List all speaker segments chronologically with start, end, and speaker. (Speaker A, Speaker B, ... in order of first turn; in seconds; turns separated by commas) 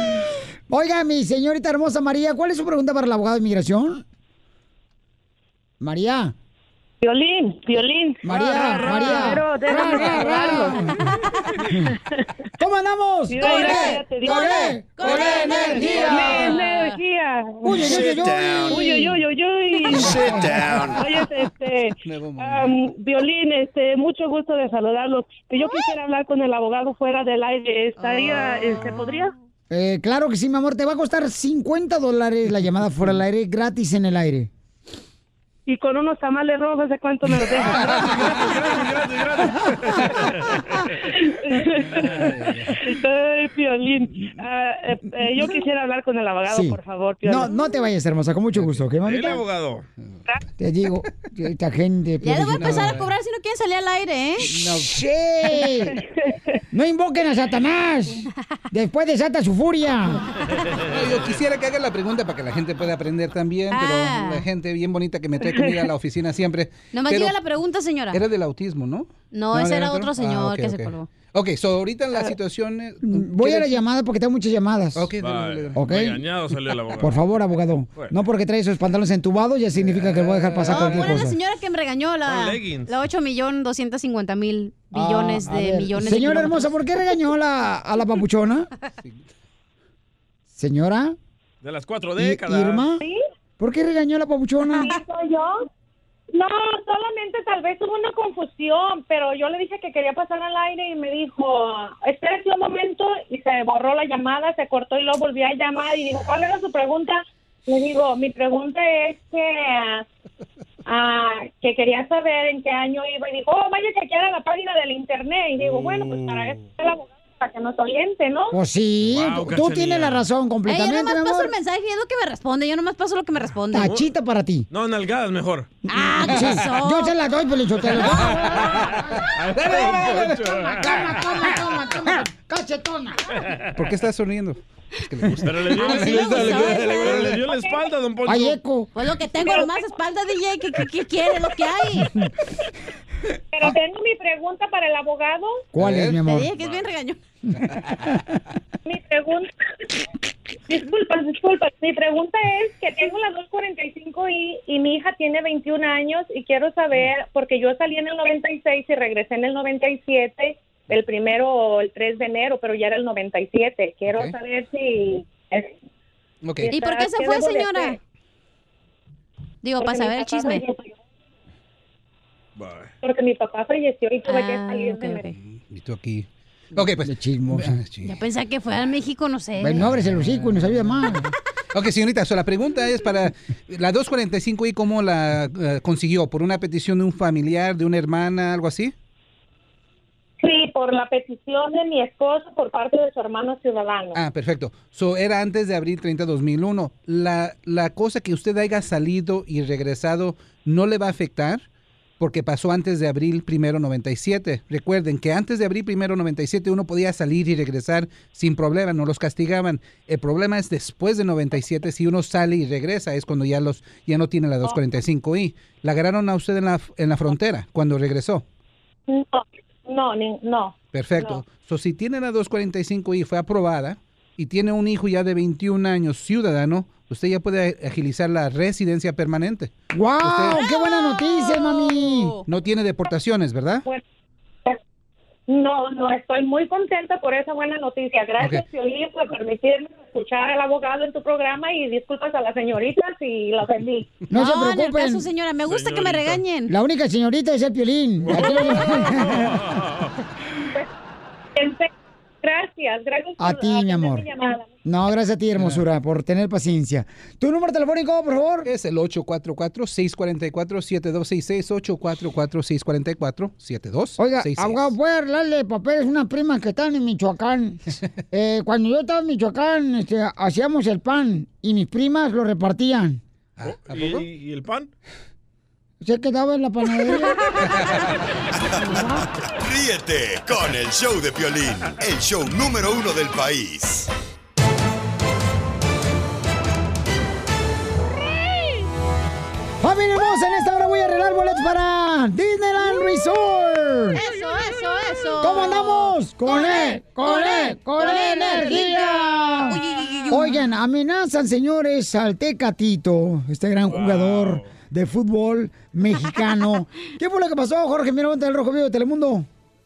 Speaker A: 0.7-4.0, Speaker A: 5.8-6.3, Speaker B: 7.0-10.8, Speaker A: 8.2-10.9, Speaker C: 10.9-11.3, Speaker A: 12.6-16.6, Speaker B: 13.3-18.1, Speaker C: 13.4-17.0, Speaker A: 17.6-19.1, Speaker B: 18.6-29.3, Speaker A: 19.9-20.6, Speaker D: 22.0-22.9, Speaker C: 28.0-29.1, Speaker A: 29.7-34.5, Speaker B: 35.7-38.3, Speaker E: 37.8-40.6, Speaker D: 38.0-38.3, Speaker B: 41.2-47.5, Speaker D: 42.0-42.8, Speaker A: 46.5-49.4, Speaker D: 48.5-48.8, Speaker E: 49.0-49.9, Speaker A: 50.6-52.9, Speaker C: 52.2-54.5, Speaker D: 52.5-53.1, Speaker D: 54.5-54.9, Speaker A: 54.8-56.0, Speaker B: 55.5-56.3, Speaker A: 56.7-60.2, Speaker D: 60.8-67.4, Speaker C: 63.7-64.5, Speaker C: 66.9-68.2, Speaker D: 68.1-73.8, Speaker C: 69.3-71.1, Speaker A: 73.0-75.1, Speaker D: 74.9-75.9, Speaker E: 75.2-77.2, Speaker A: 75.7-76.2, Speaker A: 77.0-81.4, Speaker D: 79.8-81.2, Speaker C: 80.6-86.7, Speaker E: 82.2-82.9, Speaker A: 84.9-88.7, Speaker A: 90.5-91.1, Speaker E: 91.6-92.9, Speaker A: 92.2-93.0, Speaker A: 93.6-94.9, Speaker F: 94.8-95.5, Speaker F: 96.3-110.0, Speaker F: 110.8-118.5, Speaker E: 115.6-116.6, Speaker A: 118.5-121.5, Speaker E: 119.0-120.2, Speaker C: 120.7-124.0, Speaker A: 123.7-124.7, Speaker E: 123.8-124.0, Speaker E: 124.7-125.7, Speaker C: 125.9-127.2, Speaker A: 126.2-133.2, Speaker E: 129.3-131.2, Speaker D: 129.6-130.3, Speaker D: 133.7-137.4, Speaker E: 135.4-138.6, Speaker C: 135.7-137.3, Speaker F: 137.4-137.9, Speaker A: 138.2-138.9, Speaker C: 138.9-142.1, Speaker F: 139.4-139.8, Speaker F: 143.5-145.7, Speaker A: 145.7-146.5, Speaker D: 145.8-146.2, Speaker C: 146.2-147.2, Speaker E: 146.6-146.8, Speaker F: 148.8-149.5, Speaker F: 150.7-165.7, Speaker D: 164.1-164.3, Speaker D: 166.4-166.7, Speaker F: 166.6-168.0, Speaker C: 166.7-168.0, Speaker C: 169.6-170.6, Speaker F: 169.8-170.9, Speaker E: 172.6-172.9, Speaker F: 173.0-175.3, Speaker C: 174.3-175.3, Speaker D: 175.3-178.2, Speaker A: 177.1-177.7, Speaker C: 178.0-179.9, Speaker A: 179.6-181.2, Speaker D: 179.9-181.2, Speaker D: 181.7-188.9, Speaker F: 190.4-194.2, Speaker D: 194.1-201.7, Speaker D: 202.2-218.4, Speaker F: 219.1-221.4, Speaker D: 220.9-230.6, Speaker A: 229.9-232.3, Speaker C: 230.5-232.4, Speaker D: 232.4-233.8, Speaker F: 235.5-244.1, Speaker D: 238.4-238.6, Speaker A: 244.3-245.2, Speaker C: 244.3-246.7, Speaker E: 245.6-246.4, Speaker A: 246.7-249.4, Speaker E: 248.2-250.1, Speaker F: 251.6-251.9, Speaker F: 252.4-254.7, Speaker A: 253.4-254.2, Speaker A: 254.8-258.7, Speaker D: 255.6-255.8, Speaker D: 258.6-264.9, Speaker A: 264.2-267.8, Speaker A: 268.3-273.2, Speaker D: 273.6-274.2, Speaker E: 273.6-274.9, Speaker A: 276.0-277.4, Speaker G: 278.8-284.1, Speaker C: 278.9-279.2, Speaker A: 289.8-294.2, Speaker C: 294.1-300.6, Speaker A: 295.4-299.8, Speaker A: 300.3-309.4, Speaker E: 303.9-304.7